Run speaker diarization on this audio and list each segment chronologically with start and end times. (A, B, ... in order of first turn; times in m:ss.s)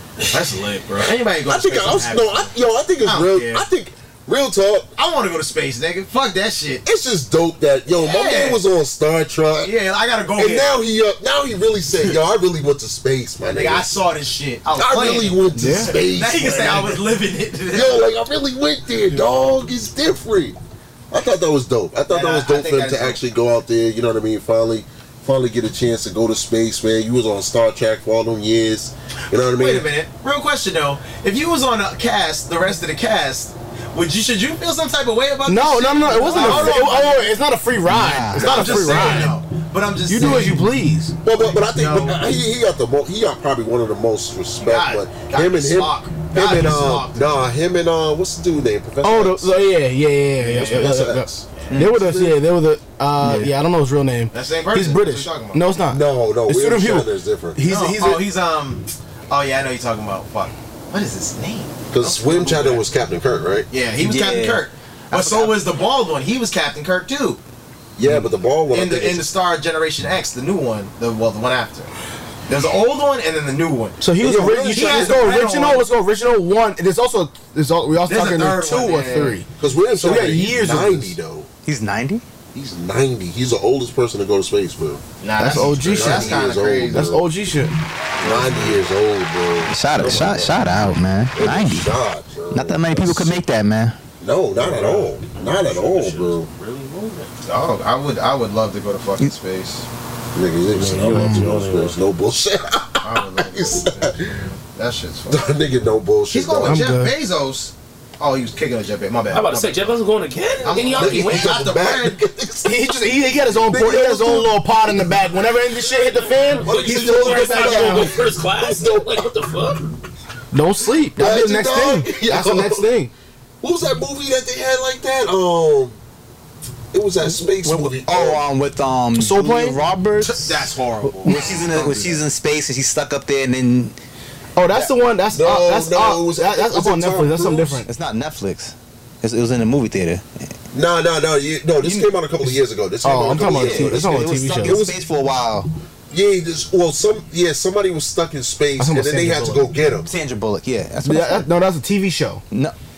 0:00.3-0:02.5 A
0:01.4-0:04.9 B
0:03.0-0:03.6 A
0:05.0-0:06.8 A
0:06.8-0:09.7 B
0:08.0-0:08.6 A
0:09.6-0:10.8 A
0:10.4-0:13.9 B
0:13.4-0:18.1 A
0:14.7-0:17.0 B
0:15.6-0:16.0 C
0:17.7-0:20.6 B
0:21.1-0:29.9 B
0:22.1-0:23.2 A
0:29.5-0:37.4 A
0:35.4-0:39.4 C
0:36.4-0:36.7 B
0:37.9-0:38.7 D
0:38.4-0:39.3 B
0:38.4-0:40.7 A
0:40.1-0:41.2 C
0:41.2-0:49.5 B
0:41.3-0:42.2 A
0:44.6-0:47.4 A
0:49.0-0:58.2 C
0:50.4-0:52.3 B
0:50.6-0:50.9 A
0:54.3-0:55.6 A
0:55.9-0:57.6 B
0:57.6-1:02.8 A
1:01.9-1:03.7 B
1:03.7-1:07.4 A
1:04.0-1:05.8 D
1:08.0-1:09.3 B
1:08.7-1:11.9 A
1:12.5-1:15.9 A
1:14.0-1:19.5 C
1:14.2-1:15.3 B
1:18.1-1:19.4 A
1:19.6-1:21.5 B
1:20.0-1:21.1 C
1:21.6-1:22.2 D
1:22.5-1:27.2 B
1:25.2-1:27.2 A
1:25.4-1:27.7 C
1:28.2-1:28.8 A
1:28.2-1:33.4 B
1:29.7-1:31.9 D
1:32.5-1:34.0 D
1:34.2-1:36.5 B
1:34.6-1:37.3 E
1:37.4-1:39.8 A
1:40.4-1:44.4 B
1:40.7-1:42.0 E
1:41.1-1:41.4 C
1:43.0-1:45.5 A
1:45.3-1:46.9 B
1:46.3-1:50.0 A
1:46.6-1:47.1 C
1:49.3-1:51.6 E
1:50.6-1:52.2 A
1:50.9-1:55.4 B
1:52.6-1:58.1 C
1:55.9-1:59.9 E
1:56.6-1:59.6 B
2:00.5-2:03.1 C
2:01.2-2:02.9 B
2:03.6-2:06.0 B
2:06.9-2:08.5 B
2:07.5-2:10.7 D
2:09.1-2:09.8 C
2:10.2-2:12.2 A
2:11.2-2:14.0 D
2:14.6-2:17.9 C
2:15.3-2:17.8 B
2:17.9-2:20.5 D
2:20.7-2:25.0 B
2:23.0-2:24.9 C
2:23.3-2:25.7 D
2:26.1-2:30.1 B
2:28.8-2:29.7 C
2:30.0-2:31.5 D
2:31.0-2:32.4 C